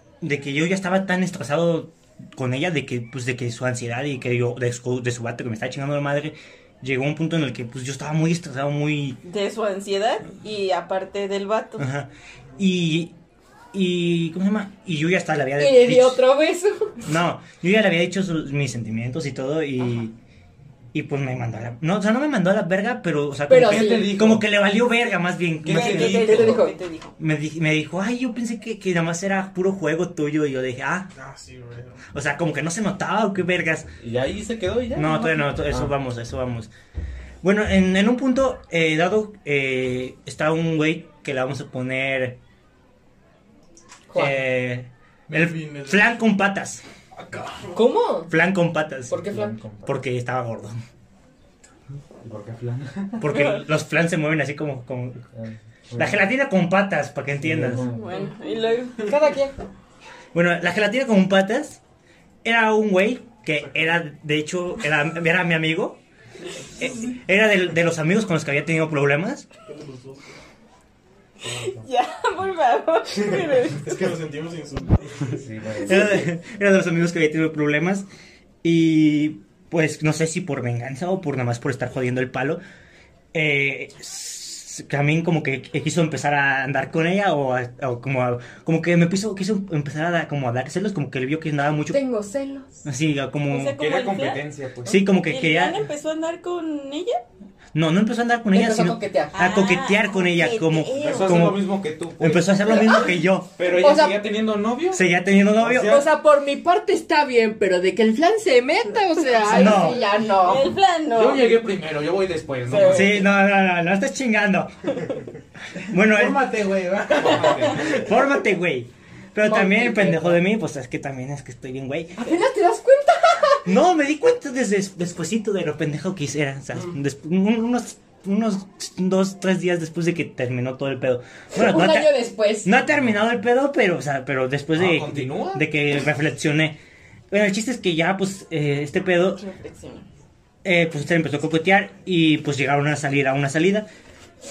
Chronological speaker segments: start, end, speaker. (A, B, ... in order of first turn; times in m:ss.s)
0:00.2-0:09.2 A
0:09.2-0:11.9 B
0:11.8-0:13.2 A
0:13.7-0:16.2 A
0:15.6-0:17.0 C
0:17.0-0:20.2 A
0:20.9-0:26.6 A
0:23.5-0:24.2 C
0:23.6-0:24.5 D
0:25.6-0:26.6 D
0:25.7-0:27.1 B
0:26.0-0:26.8 C
0:27.2-0:31.1 A
0:31.1-0:32.0 E
0:32.1-0:33.9 A
0:34.0-0:35.9 D
0:34.9-0:36.7 A
0:37.4-0:42.4 A
0:44.1-0:44.4 C
0:44.1-0:46.8 A
0:45.3-0:46.2 E
0:47.1-0:47.8 E
0:47.7-0:48.3 C
0:48.3-0:50.7 A
0:49.1-0:49.5 C
0:49.3-0:50.0 D
0:52.2-0:53.3 D
0:53.2-0:55.3 A
0:53.3-0:53.6 B
0:55.3-0:56.2 D
0:56.0-0:57.9 A
0:57.4-0:58.1 D
0:57.8-0:59.1 B
0:59.0-0:59.5 C
1:00.3-1:01.8 A
1:02.4-1:06.0 A
1:03.5-1:04.0 E
1:06.8-1:09.5 A
1:09.6-1:10.4 E
1:11.4-1:11.9 D
1:11.8-1:14.1 B
1:13.6-1:15.9 E
1:15.3-1:16.2 D
1:15.8-1:18.0 A
1:18.6-1:22.6 A
1:23.3-1:32.0 A
1:31.9-1:32.8 C
1:32.8-1:33.8 A
1:33.5-1:34.4 B
1:33.7-1:35.0 D
1:34.8-1:35.9 A
1:35.2-1:37.2 B
1:37.7-1:43.5 A
1:38.5-1:39.3 C
1:39.3-1:41.6 B
1:41.0-1:42.8 D
1:42.7-1:44.2 C
1:43.6-1:46.1 D
1:44.9-1:46.0 A
1:45.8-1:50.7 C
1:49.3-1:51.5 B
1:49.5-1:50.1 A
1:51.1-1:53.3 D
1:52.7-1:53.2 B
1:52.7-1:53.0 E
1:52.9-1:54.7 A
1:55.8-1:56.5 A
1:55.9-1:58.0 E
1:57.1-1:58.2 D
1:57.8-2:02.2 A
1:59.4-2:00.4 C
2:02.2-2:03.7 C
2:03.6-2:16.8 A
2:11.5-2:12.7 C
2:14.7-2:15.7 D
2:17.3-2:19.4 A
2:19.4-2:20.0 B
2:20.6-2:23.9 A